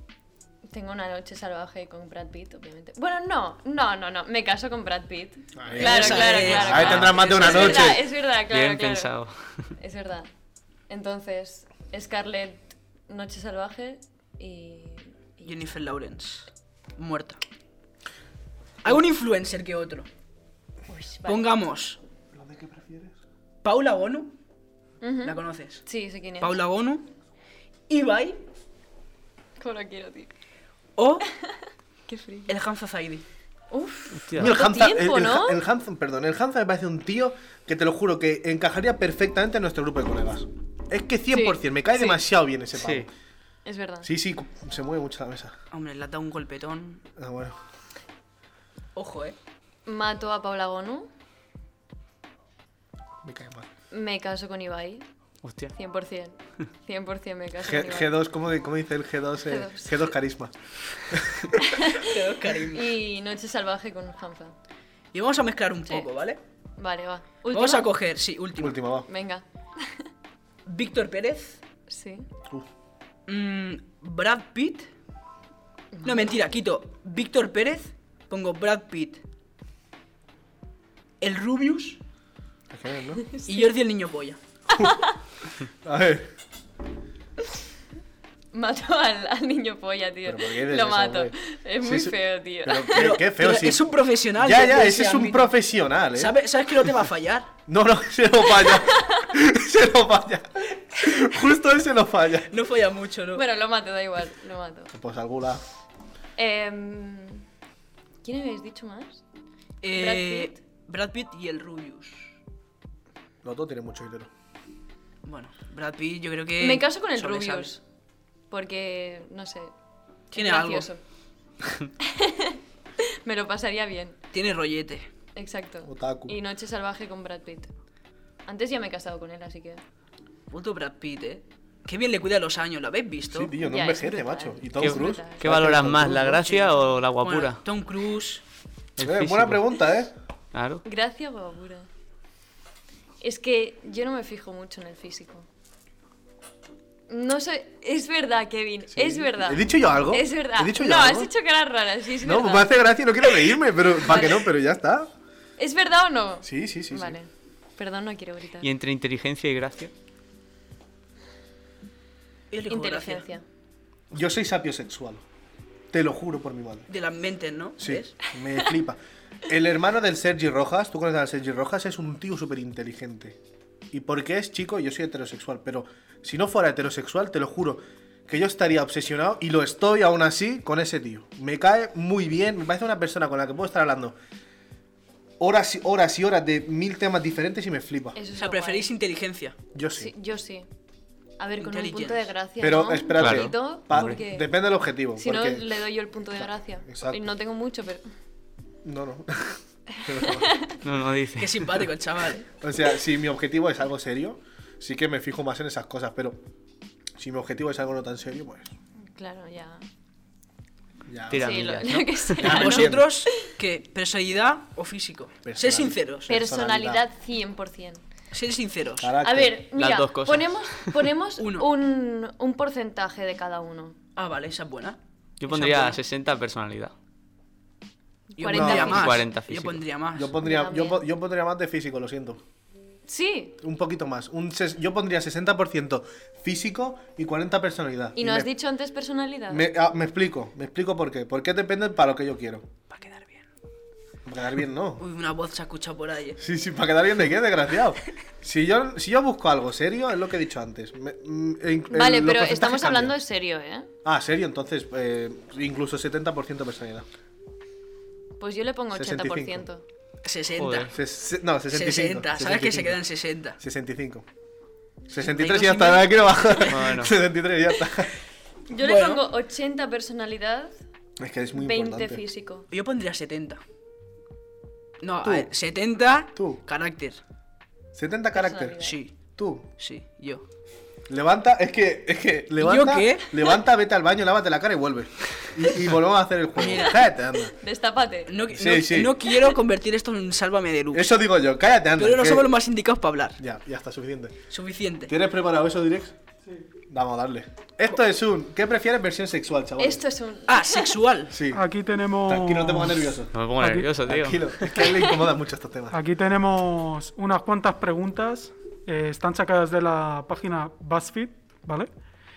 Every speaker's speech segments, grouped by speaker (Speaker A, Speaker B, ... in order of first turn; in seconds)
Speaker A: 0.7-9.1, 9.8-10.3, 10.9-15.6, 20.9-21.4, 25.0-26.6, 29.6-30.3, 31.4-32.5, 33.7-35.6, 41.3-42.2, 43.6-44.1, 49.9-51.1, 53.9-55.0, 55.7-58.1, 59.5-59.9, 61.6-62.2, 62.7-64.5, 66.8-67.9, 69.1-70.0, 71.9-72.3, 75.9-76.3, 83.3-83.7, 88.5-93.2, 98.7-99.3, 103.3-104.9, 106.4-107.4, 108.2-109.2, 109.9-110.6, 116.6-117.8, 118.5-119.7, 120.3-121.0, 122.0-124.2, 125.3-127.7, 128.4-129.8, 133.6-135.4, 140.8-141.9, 143.2-145.5, 147.1-152.9, 155.6-158.7, 162.7-163.4, 188.1-188.9, 189.9-190.7, 191.4-194.5, 195.2-198.0, 200.1-200.7, 209.1-209.8, 211.3-213.5, 216.3-218.0, 219.2-223.9, 228.3-229.1, 230.4-231.0, 233.1-233.6, 238.1-239.7, 251.9-253.9, 258.4-259.8, 268.7-270.7, 271.6-272.7, 278.3-279.0, 287.6-288.3, 299.8-300.9
Speaker B: 5.5-8.0, 22.3-23.2, 34.4-43.1, 44.0-45.5, 47.2-47.6, 53.2-53.7, 57.6-61.5, 68.6-69.1, 82.7-83.2, 85.8-86.3, 90.2-96.4, 97.7-102.5, 104.9-105.6, 113.4-114.3, 125.8-126.3, 133.3-136.5, 139.0-140.1, 148.9-151.3, 152.2-155.1, 156.4-157.2, 164.1-165.2, 165.9-166.9, 167.8-173.4, 173.9-184.2, 185.4-188.2, 189.7-190.1, 192.6-195.7, 196.4-197.2, 198.8-200.6, 202.6-206.4, 207.2-208.7, 211.1-211.6, 212.4-213.1, 215.4-217.0, 219.0-219.6, 228.5-229.2, 230.1-232.4, 233.6-238.5, 239.5-242.7, 244.2-245.0, 246.4-253.1, 254.0-257.1, 258.9-259.6, 260.9-263.0, 263.6-264.2, 265.1-268.1, 271.2-272.2, 275.2-275.5, 276.4-276.6, 277.9-279.7, 281.1-287.5, 288.5-289.2, 290.9-292.5, 293.4-294.4, 295.1-296.1, 296.9-300.0, 301.3-301.6, 302.2-303.3, 304.0-306.0
Speaker C: 5.7-7.9, 15.4-17.4, 18.8-20.1, 21.2-22.0, 23.6-24.3, 25.2-25.8, 26.4-27.1, 27.9-28.4, 31.0-31.2, 32.5-33.2, 45.7-47.0, 48.9-49.4, 61.9-62.9, 65.1-66.4, 67.5-68.8, 70.7-71.6, 73.3-74.9, 76.0-79.2, 81.2-82.0, 83.5-84.4, 92.9-95.5, 96.1-97.5, 102.5-103.4, 109.8-112.3, 115.2-117.7, 120.3-120.9, 124.3-125.1, 130.5-133.5, 136.6-138.4, 162.5-163.3, 166.9-168.2, 188.4-189.6, 191.6-192.3, 201.4-202.4, 212.4-216.3, 218.3-219.1, 221.4-221.7, 224.2-226.0, 228.4-230.3, 242.9-243.4, 245.0-246.4, 260.2-260.9, 261.7-263.6, 265.2-266.7, 268.8-269.2, 272.7-273.6, 275.0-277.2, 278.8-279.1, 279.8-280.4, 282.6-283.3, 286.6-287.0, 288.3-291.2, 292.0-293.4, 294.5-295.1, 300.5-301.4
Speaker D: 6.7-7.2, 8.4-9.7, 34.1-34.5, 42.8-43.0, 55.4-55.7, 134.8-137.6, 139.0-139.7, 140.5-140.8, 158.6-159.9, 193.2-194.2, 200.8-201.8, 211.3-212.5, 219.7-221.0, 225.4-226.9, 228.8-229.8, 260.6-260.9, 266.7-267.1, 303.3-305.1
Speaker E: 301.5-303.0, 303.6-304.0, 305.9-311.9